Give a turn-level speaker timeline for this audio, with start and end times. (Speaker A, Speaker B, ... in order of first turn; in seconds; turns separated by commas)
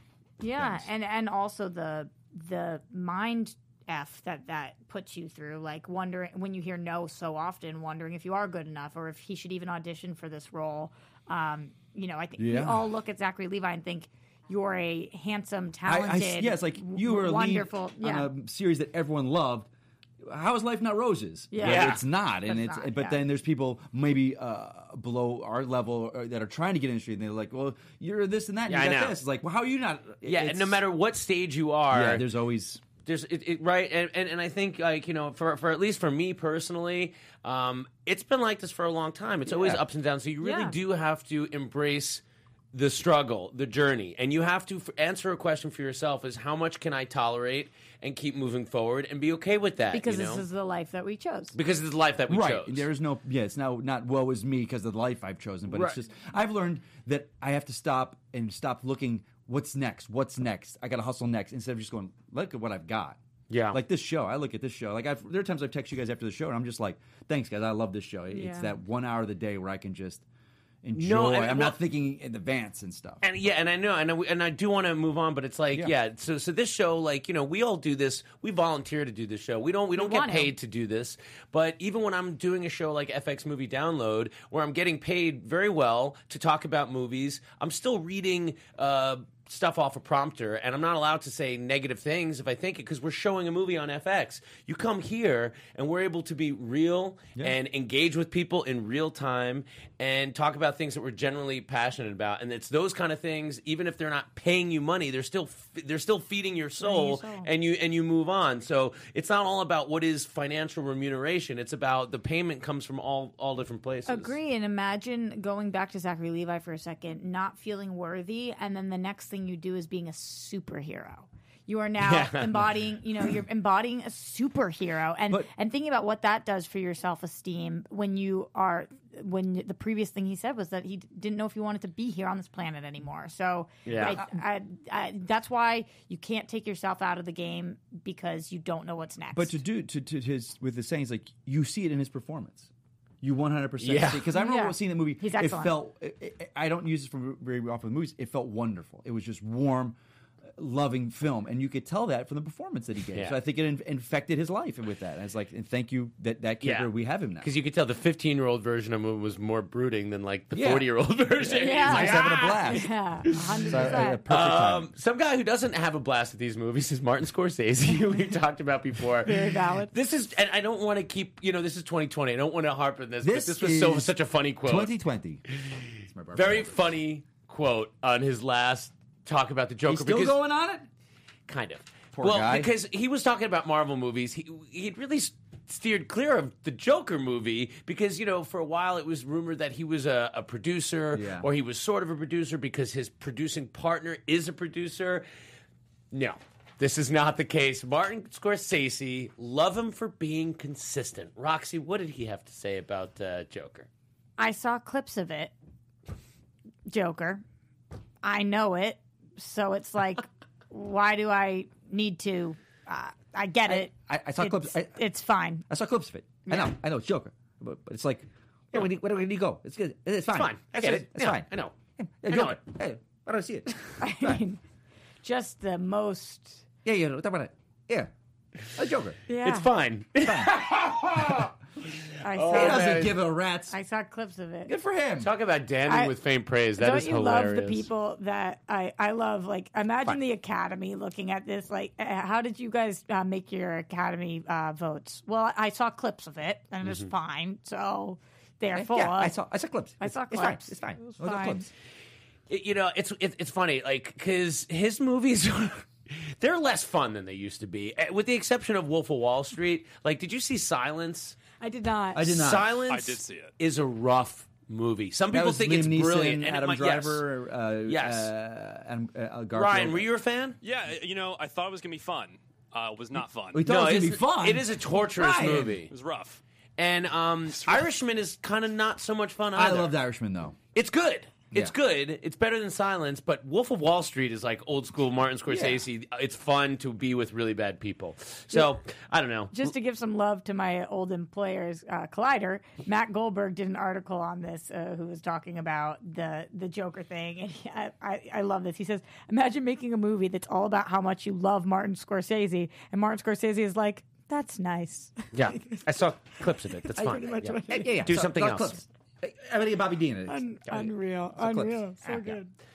Speaker A: 0.4-18.3, Speaker B: 0.6-0.9, Speaker B: 12.4-12.9, Speaker B: 15.8-19.7, Speaker B: 20.2-30.8, Speaker A: 21.5-23.2, Speaker C: 21.6-22.0, Speaker C: 28.7-29.2, Speaker C: 30.2-32.2, Speaker B: 31.9-32.8, Speaker C: 33.0-42.2, Speaker B: 39.5-39.8, Speaker A: 40.4-40.8, Speaker C: 42.7-50.4, Speaker A: 49.9-51.5, Speaker C: 51.5-52.9, Speaker B: 52.3-63.2, Speaker C: 55.7-56.0, Speaker C: 63.5-63.8, Speaker B: 63.7-70.2, Speaker A: 68.3-68.8, Speaker B: 70.8-73.2, Speaker C: 70.9-71.8, Speaker C: 73.2-114.3, Speaker A: 80.0-80.5, Speaker A: 106.8-107.5, Speaker A: 114.1-139.6, Speaker C: 122.0-122.6, Speaker C: 133.8-134.2, Speaker B: 134.0-134.3, Speaker B: 139.3-142.7, Speaker B: 143.2-150.0, Speaker C: 143.8-144.3, Speaker A: 144.3-145.8, Speaker B: 150.6-157.5, Speaker C: 156.6-174.9, Speaker B: 160.5-162.9, Speaker A: 161.6-164.2, Speaker B: 163.7-164.9, Speaker A: 169.2-169.9, Speaker B: 173.2-174.1, Speaker B: 174.6-175.4, Speaker C: 175.6-180.4, Speaker B: 176.1-176.7, Speaker B: 179.8-180.9, Speaker C: 181.5-195.2, Speaker B: 182.1-182.7, Speaker B: 191.1-191.5, Speaker C: 196.1-203.9, Speaker A: 204.4-205.5, Speaker A: 206.9-207.4, Speaker A: 208.2-215.6, Speaker B: 213.7-215.0, Speaker B: 215.7-224.4, Speaker A: 216.4-216.7, Speaker C: 220.3-221.7, Speaker C: 222.3-222.6, Speaker A: 224.0-224.6, Speaker A: 225.2-226.6, Speaker B: 226.8-228.1, Speaker B: 228.7-229.2, Speaker A: 229.3-229.7, Speaker C: 229.4-231.5, Speaker B: 230.2-231.5, Speaker A: 232.2-233.1, Speaker C: 232.3-233.2, Speaker B: 232.5-233.7, Speaker A: 233.7-234.7, Speaker B: 234.7-235.3, Speaker C: 235.2-237.9, Speaker A: 235.9-236.1, Speaker A: 236.8-249.3, Speaker C: 246.8-247.1, Speaker B: 248.7-251.7, Speaker A: 250.0-251.7, Speaker C: 252.5-261.4, Speaker A: 261.6-262.4, Speaker B: 262.1-262.7, Speaker C: 262.3-267.2, Speaker D: 262.8-263.5, Speaker B: 265.3-270.1, Speaker C: 267.9-268.3, Speaker C: 269.5-270.6, Speaker D: 270.6-273.7, Speaker B: 273.5-275.8, Speaker C: 273.6-275.9, Speaker D: 275.8-276.4, Speaker C: 276.8-279.9, Speaker D: 277.5-277.9, Speaker B: 279.5-280.6, Speaker C: 280.7-289.7, Speaker A: 289.5-305.8, Speaker C: 305.3-308.8, Speaker B: 307.0-312.4, Speaker A: 307.0-308.0, Speaker A: 310.3-312.5